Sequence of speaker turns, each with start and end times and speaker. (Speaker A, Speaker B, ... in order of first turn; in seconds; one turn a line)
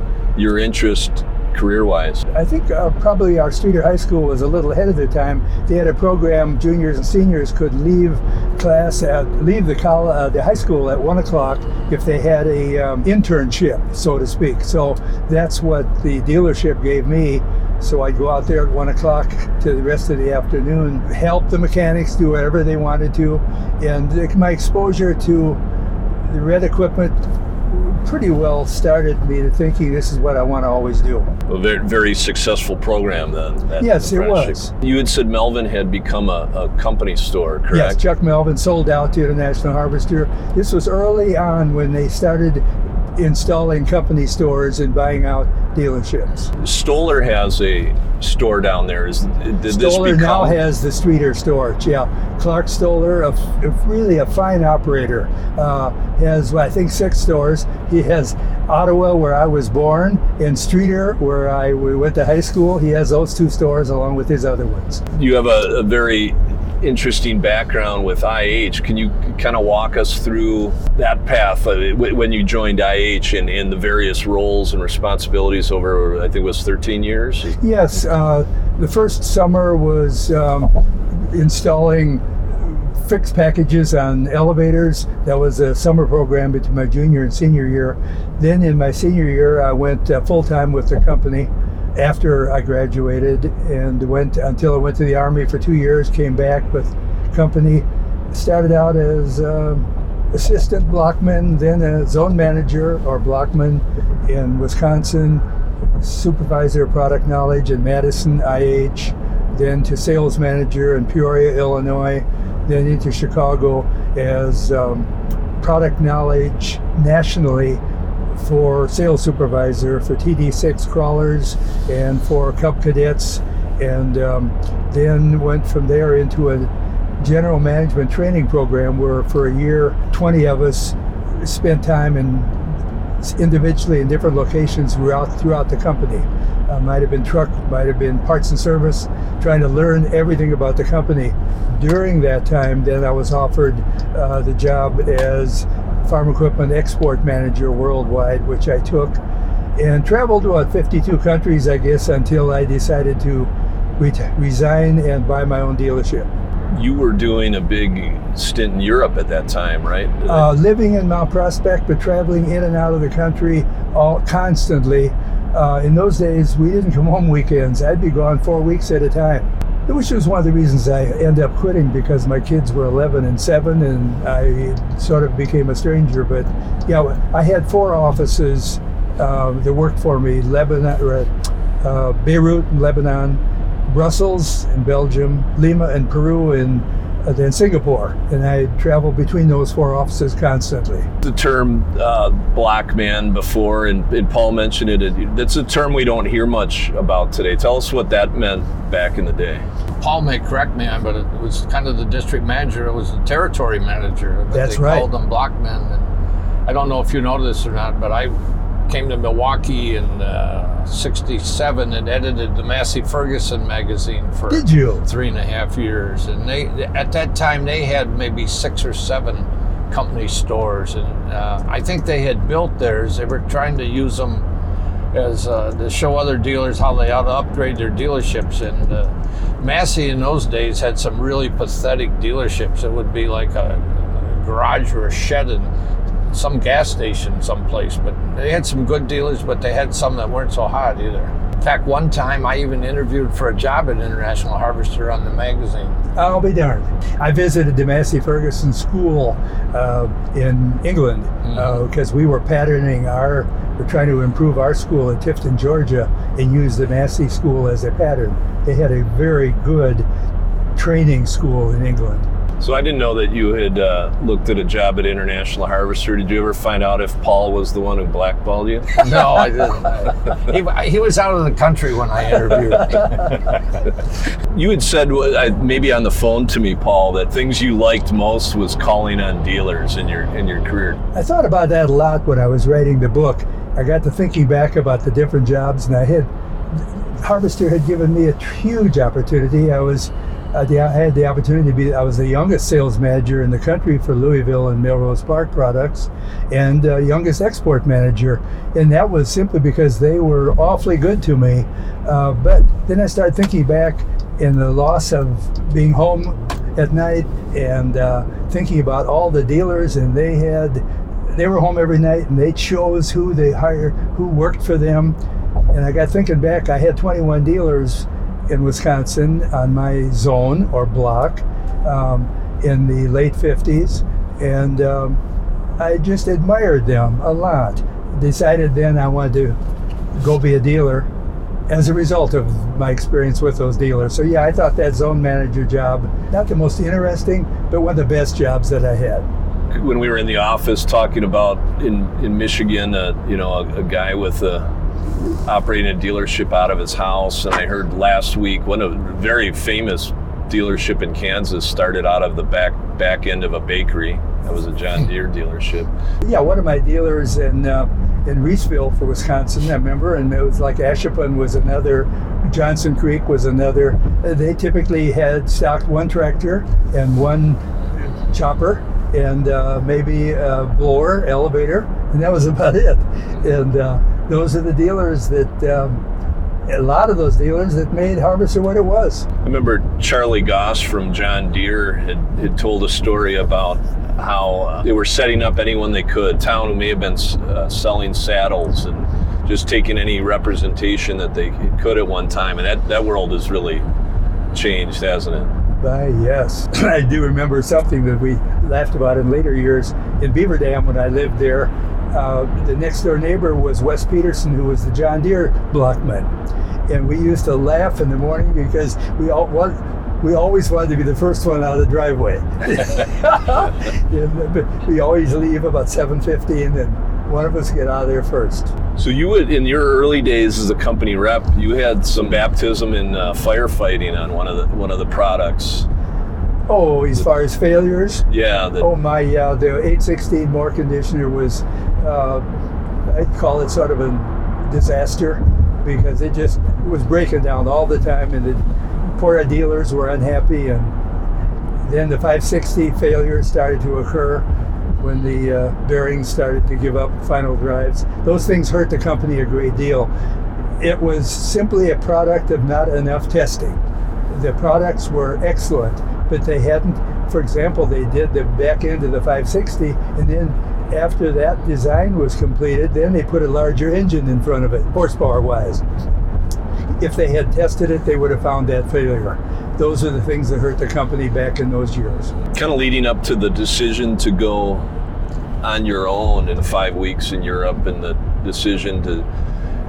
Speaker A: 0.3-2.2
Speaker B: 2.3-25.6
Speaker B: 26.2-31.3
Speaker A: 31.5-38.0
Speaker B: 33.8-34.7
Speaker B: 37.7-46.5
Speaker A: 46.6-50.6
Speaker B: 49.7-65.0
Speaker A: 65.1-77.5
Speaker B: 77.6-105.4
Speaker B: 106.0-117.8
Speaker B: 118.3-149.2
Speaker B: 149.8-156.3
Speaker A: 156.7-160.5
Speaker B: 160.3-191.1
Speaker A: 191.2-199.7
Speaker C: 200.0-206.1
Speaker B: 204.5-205.1
Speaker C: 206.7-208.3
Speaker C: 208.9-224.4
Speaker B: 214.5-215.1
Speaker C: 225.1-235.7
Speaker C: 236.3-246.0
Speaker B: 246.1-260.1
Speaker B: 260.8-262.3
Speaker A: 262.6-269.0
Speaker C: 269.0-273.1
Speaker A: 274.5-281.0
Speaker B: 281.1-315.2
Speaker B: 315.7-325.2
Speaker B: 325.8-329.6
Speaker B: 330.1-331.1
Speaker B: 331.7-339.3
Speaker A: 339.7-355.9
Speaker B: 356.2-376.0
Speaker B: 376.7-379.3
Speaker A: 379.4-393.8
Speaker A: 394.5-395.5
Speaker B: 395.8-406.3
Speaker B: 406.9-418.7
Speaker A: 419.0-425.9
Speaker B: 426.7-428.2
Speaker A: 428.3-428.9
Speaker B: 428.8-432.4
Speaker B: 433.0-440.9
Speaker B: 441.8-444.5
Speaker B: 445.0-450.1
Speaker B: 450.8-465.8
Speaker B: 467.0-472.3
Speaker A: 472.5-474.9
Speaker A: 475.6-479.2